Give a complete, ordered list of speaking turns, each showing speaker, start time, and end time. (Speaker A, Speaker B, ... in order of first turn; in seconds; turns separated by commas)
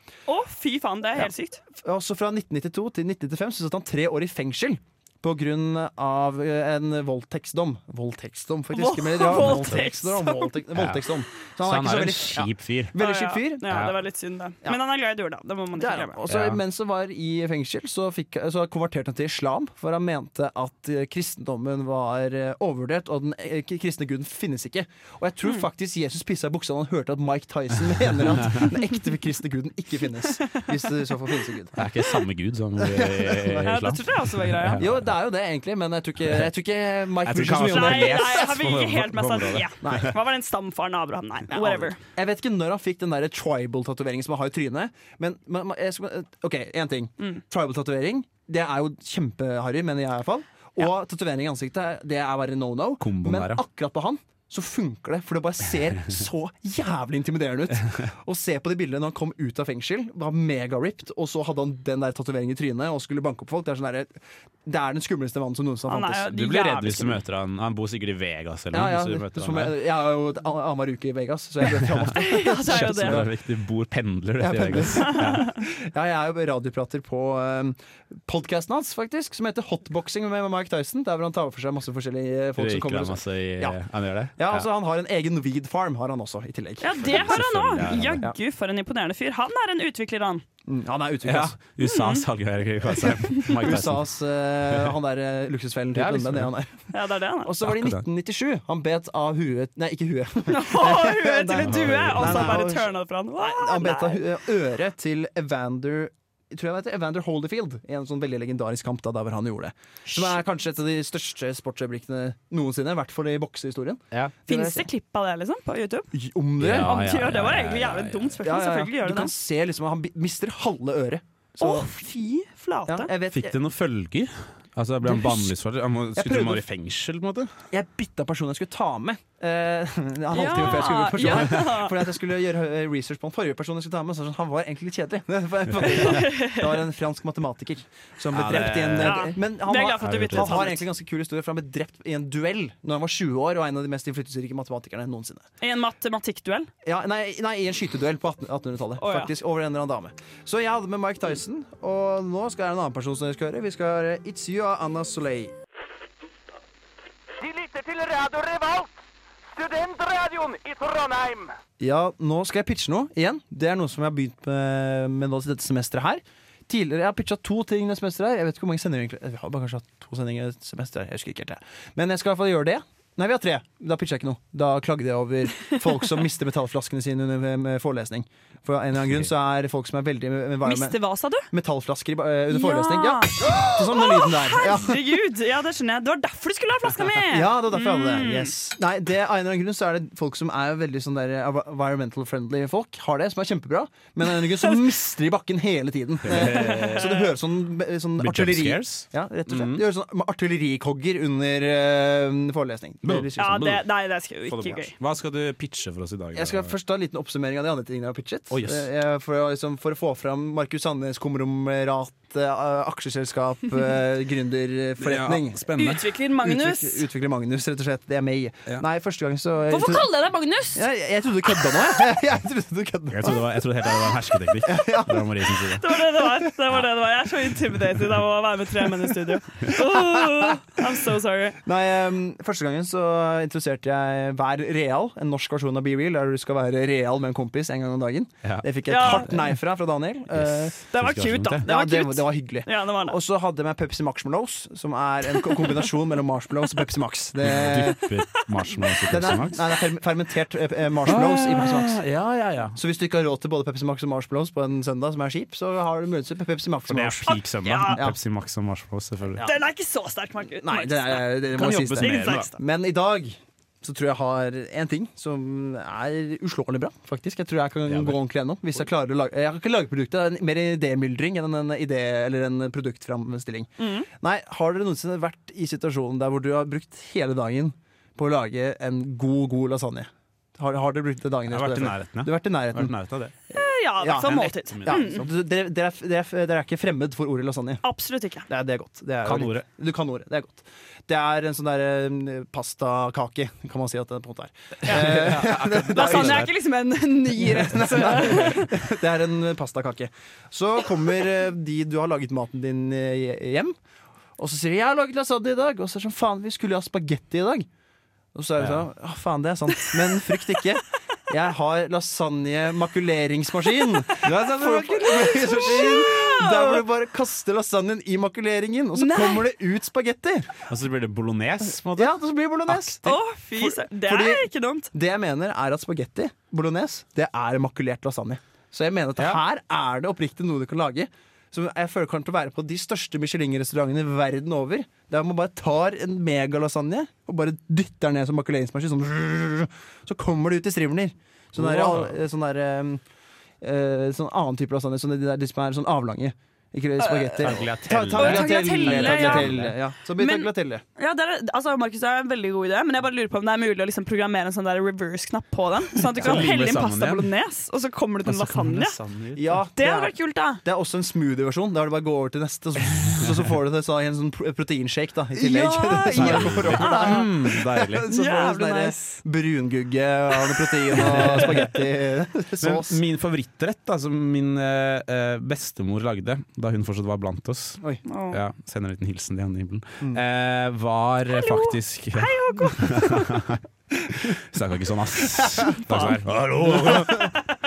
Speaker A: 0.3-1.6, Speaker B: 1.8-13.8, Speaker A: 8.7-10.5, Speaker C: 9.3-9.8, Speaker C: 10.7-11.1, Speaker C: 11.6-13.0, Speaker A: 13.0-16.2, Speaker C: 13.7-13.9, Speaker B: 15.8-31.8, Speaker C: 16.3-16.6, Speaker C: 31.7-35.1, Speaker B: 32.8-33.7, Speaker A: 33.6-34.8, Speaker B: 34.8-38.5, Speaker C: 37.2-40.0, Speaker A: 37.6-42.0, Speaker B: 39.8-40.1, Speaker B: 41.5-64.1, Speaker C: 53.0-53.6, Speaker B: 64.7-66.3, Speaker A: 65.9-67.2, Speaker C: 66.2-69.7, Speaker B: 68.7-73.3, Speaker C: 71.6-75.5, Speaker A: 72.2-73.2, Speaker B: 74.4-83.8, Speaker A: 75.0-75.4, Speaker C: 82.6-84.7, Speaker B: 84.3-87.4, Speaker A: 86.8-90.4, Speaker C: 87.0-88.3, Speaker B: 90.7-91.6, Speaker C: 91.2-94.1, Speaker A: 91.8-92.2, Speaker B: 93.4-96.9, Speaker C: 95.9-96.5, Speaker A: 96.9-97.5, Speaker B: 97.4-114.8, Speaker C: 97.6-98.0, Speaker A: 100.5-104.2, Speaker C: 101.6-102.7, Speaker A: 110.1-110.4, Speaker A: 114.5-116.1, Speaker B: 116.1-116.9, Speaker C: 116.6-118.3, Speaker A: 116.8-119.3, Speaker B: 118.4-121.9, Speaker A: 121.6-123.1, Speaker B: 122.9-123.6, Speaker C: 123.3-127.5, Speaker B: 125.0-125.5, Speaker B: 126.1-126.6, Speaker B: 127.7-145.4, Speaker A: 130.3-131.9, Speaker A: 135.8-136.8, Speaker C: 138.3-139.2, Speaker A: 139.0-140.8, Speaker C: 140.0-140.6, Speaker A: 145.6-146.7, Speaker B: 146.8-155.5, Speaker A: 149.0-149.3, Speaker B: 161.8-185.2, Speaker A: 180.6-181.5, Speaker A: 182.5-188.5, Speaker B: 187.3-203.8, Speaker C: 196.2-197.1, Speaker A: 196.4-197.2, Speaker C: 198.2-199.8, Speaker C: 203.0-203.8, Speaker A: 203.4-204.9, Speaker C: 204.5-206.7, Speaker B: 206.3-220.1, Speaker C: 208.5-208.9, Speaker C: 215.0-216.0, Speaker A: 215.8-217.1, Speaker A: 219.7-220.8, Speaker B: 220.7-223.4, Speaker C: 223.1-225.9, Speaker B: 224.6-225.4, Speaker A: 225.8-231.6, Speaker B: 229.8-230.4, Speaker B: 231.6-240.8, Speaker C: 238.4-239.5, Speaker A: 238.9-239.3, Speaker C: 240.3-241.7, Speaker A: 240.9-243.2, Speaker B: 241.6-248.1, Speaker A: 245.4-245.8, Speaker C: 247.4-249.6, Speaker B: 249.1-252.1, Speaker C: 251.0-252.8, Speaker B: 252.7-257.4, Speaker C: 256.9-259.4, Speaker A: 257.3-258.0, Speaker B: 257.9-258.2, Speaker A: 259.4-262.6, Speaker B: 260.6-282.9, Speaker C: 261.5-262.5, Speaker C: 267.9-268.2, Speaker A: 273.8-274.1, Speaker C: 281.5-283.3, Speaker A: 283.5-285.2, Speaker B: 284.0-287.8, Speaker C: 284.2-285.3, Speaker A: 287.8-288.5, Speaker B: 288.5-296.5, Speaker C: 289.2-289.6, Speaker C: 294.8-296.5, Speaker A: 295.9-298.7, Speaker B: 297.4-303.7, Speaker B: 304.4-307.7, Speaker B: 308.3-320.6, Speaker C: 308.6-308.8, Speaker C: 314.2-315.1, Speaker A: 315.1-316.8, Speaker A: 318.9-319.5, Speaker C: 320.7-322.1, Speaker B: 321.9-343.0, Speaker A: 323.0-324.9, Speaker C: 341.5-342.1, Speaker B: 343.6-350.8, Speaker A: 347.0-347.4, Speaker C: 347.4-349.7, Speaker A: 348.1-349.5, Speaker A: 350.2-359.0, Speaker C: 356.1-357.3, Speaker C: 358.2-359.6, Speaker B: 359.3-373.0, Speaker A: 359.8-360.6, Speaker A: 365.4-369.2, Speaker C: 366.1-368.1, Speaker A: 370.3-371.5, Speaker C: 370.9-371.6, Speaker C: 372.6-383.6, Speaker A: 378.0-378.4, Speaker A: 381.3-383.3, Speaker C: 384.1-387.3, Speaker B: 385.6-387.3, Speaker A: 385.9-386.1